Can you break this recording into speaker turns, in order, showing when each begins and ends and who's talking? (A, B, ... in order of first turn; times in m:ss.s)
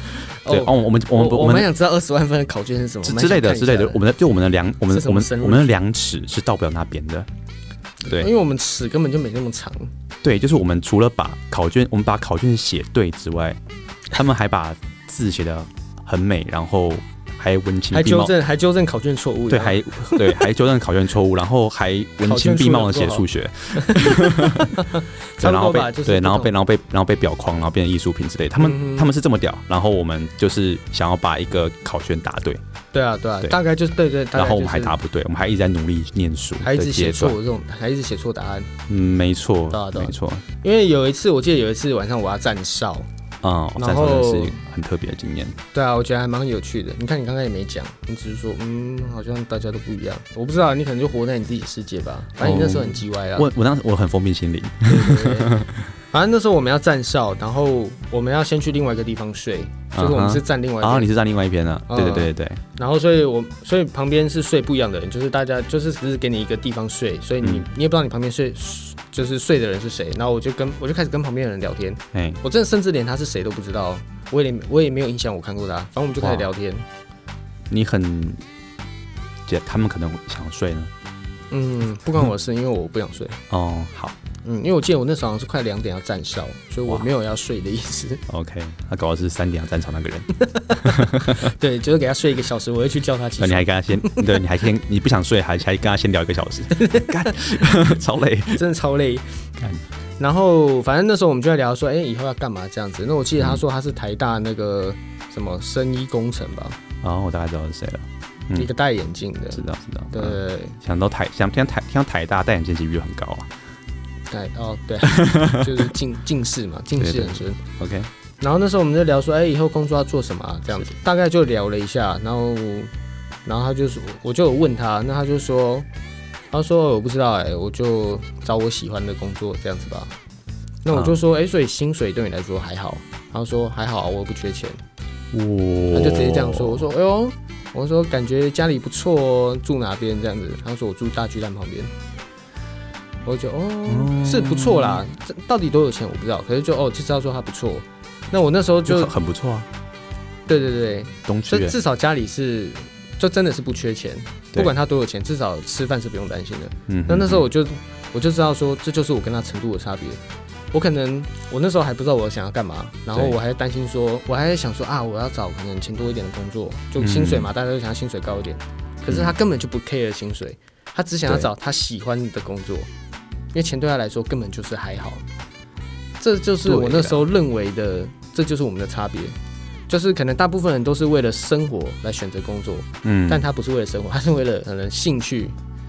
0:00.4-0:01.7 A
0:00.4-0:04.0 B
0:03.0-0:07.3 A
0:04.9-0:05.8 B
0:08.0-0:09.9 B
0:10.2-0:13.6 A
0:14.1-0:18.3 A
0:17.9-0:20.5 B
0:19.5-0:24.8 A
0:22.2-0:26.5 B
0:25.4-0:32.6 A
0:28.6-0:29.1 B
0:32.9-0:35.0 B
0:34.3-0:37.4 A
0:36.6-0:38.7 B
0:38.9-0:40.4 A
0:39.7-0:43.1 B
0:43.4-0:45.6 A
0:43.8-0:44.6 B
0:45.7-0:53.5 B
0:52.4-0:55.9 A
0:54.8-1:01.1 B
0:59.9-1:02.6 A
1:01.9-1:16.9 B
1:12.1-1:12.4 A
1:16.2-1:16.5 A
1:17.7-1:18.4 A
1:19.5-1:20.9 A
1:21.5-1:23.4 B
1:23.5-1:24.2 A
1:24.4-1:28.2 B
1:28.3-1:31.5 A
1:30.4-1:34.4 B
1:33.4-1:38.6 A
1:36.8-1:37.3 B
1:38.6-1:39.4 B
1:39.6-1:39.8 A
1:40.2-1:46.8 B
1:47.0-1:48.7 A
1:48.5-1:50.8 B
1:49.5-1:53.5 A
1:54.3-1:57.6 B
1:55.0-1:55.9 A
1:57.0-1:58.1 A
1:58.4-2:02.9 B
2:03.5-2:05.9 B
2:06.5-2:10.1 B
2:10.8-2:14.8 B
2:15.3-2:16.8 A
2:15.9-2:21.9 B
2:23.2-2:29.2 B
2:23.9-2:25.0 A
2:28.9-2:29.7 A
2:30.5-2:40.2 B
2:31.3-2:31.8 A
2:36.9-2:37.4 A
2:40.7-2:52.9 B
2:47.0-2:47.5 A
2:49.1-2:49.3 A
2:53.5-2:55.3 B
2:56.2-2:59.4 B
2:56.6-2:57.2 A
2:59.9-3:05.6 B
3:03.0-3:03.4 A